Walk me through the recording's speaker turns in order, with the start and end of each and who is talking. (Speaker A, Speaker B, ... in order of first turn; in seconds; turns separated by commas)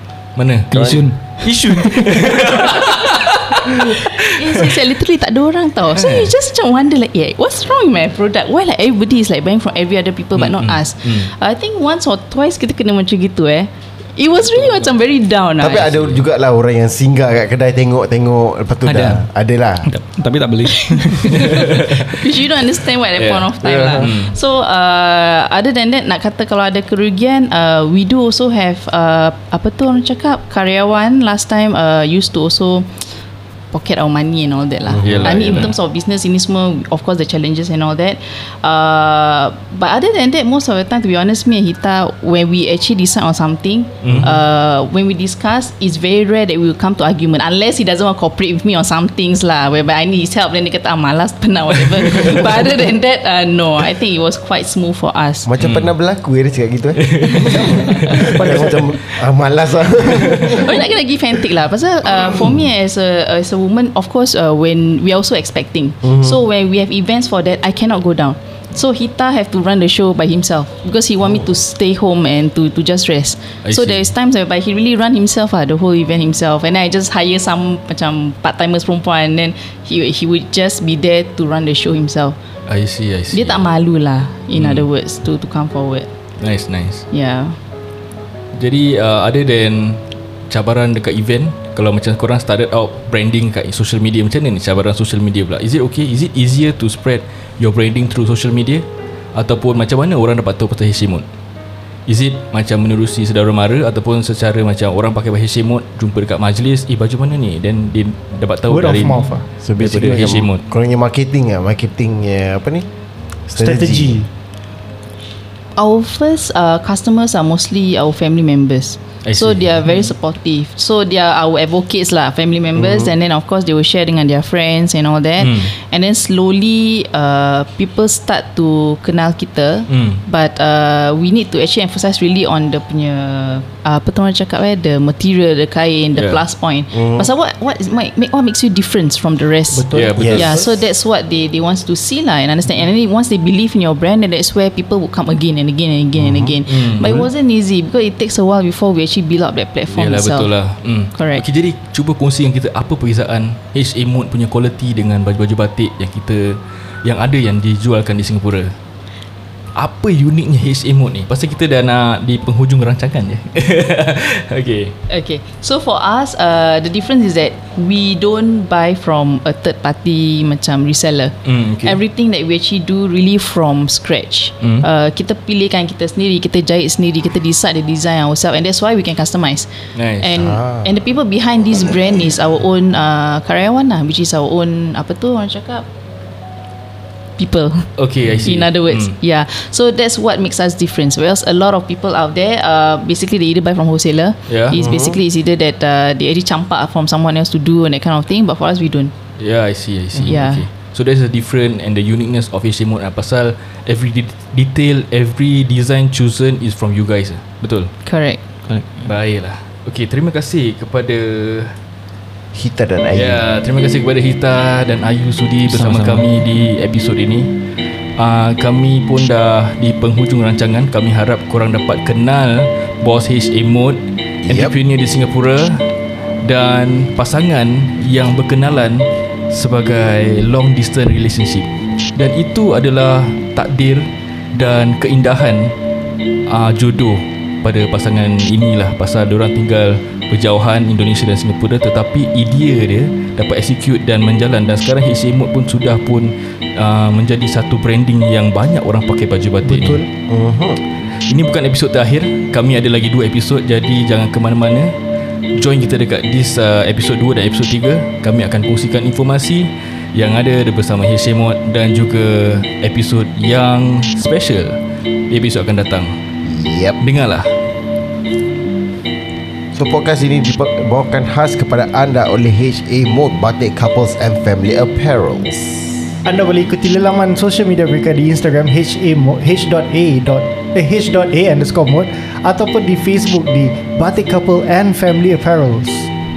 Speaker A: 0.4-0.7, Speaker B: 0.7-2.8, Speaker C: 0.7-1.0, Speaker A: 1.4-4.8, Speaker D: 3.7-15.9, Speaker A: 5.9-6.3, Speaker A: 10.4-11.3, Speaker A: 14.6-14.9, Speaker C: 15.6-19.9, Speaker A: 15.8-16.2, Speaker B: 18.8-19.3, Speaker B: 19.8-22.0, Speaker D: 20.7-33.1, Speaker A: 21.5-21.9, Speaker A: 23.1-24.4, Speaker D: 33.7-55.5, Speaker C: 34.9-35.4, Speaker A: 35.0-35.7, Speaker A: 44.0-44.4, Speaker A: 52.0-52.5, Speaker C: 55.4-60.9, Speaker A: 55.6-55.9, Speaker A: 57.0-58.9, Speaker D: 60.3-82.4, Speaker C: 66.0-66.3, Speaker A: 73.6-74.1, Speaker A: 82.7-83.7, Speaker D: 83.3-86.1, Speaker A: 84.6-84.9, Speaker A: 86.4-87.1, Speaker D: 87.1-87.6, Speaker A: 88.5-101.2, Speaker A: 102.1-110.6, Speaker E: 108.7-109.5, Speaker C: 109.6-112.9, Speaker C: 113.5-114.3, Speaker E: 113.6-114.3, Speaker D: 115.8-150.5, Speaker A: 119.2-120.1, Speaker C: 122.8-123.1, Speaker A: 125.4-125.7, Speaker A: 129.9-130.2, Speaker A: 136.2-136.4, Speaker C: 136.9-137.3, Speaker E: 139.7-140.8, Speaker A: 139.9-140.5, Speaker C: 140.2-140.6, Speaker C: 146.2-146.6, Speaker A: 146.7-147.2, Speaker A: 149.9-158.7, Speaker D: 151.1-151.4, Speaker A: 159.8-164.9, Speaker D: 165.1-185.9, Speaker A: 171.4-172.0, Speaker A: 174.6-174.9, Speaker A: 179.9-180.4, Speaker C: 180.3-180.9, Speaker D: 187.4-187.9, Speaker A: 188.0-189.2, Speaker D: 188.4-199.1, Speaker A: 194.5-194.9, Speaker C: 194.7-195.2, Speaker A: 199.4-207.9, Speaker D: 200.2-200.7, Speaker D: 208.1-208.4, Speaker B: 208.7-209.1, Speaker A: 209.1-211.8, Speaker C: 212.5-213.4, Speaker A: 213.1-217.5, Speaker B: 215.7-216.5, Speaker A: 218.2-225.8, Speaker C: 224.4-224.7, Speaker A: 226.4-235.7, Speaker A: 236.5-250.0, Speaker E: 249.6-250.1, Speaker C: 250.3-250.8, Speaker A: 251.2-254.9, Speaker A: 255.6-264.8, Speaker A: 265.3-266.2, Speaker C: 266.4-267.0, Speaker A: 267.0-267.5, Speaker C: 269.7-276.0, Speaker E: 276.2-286.1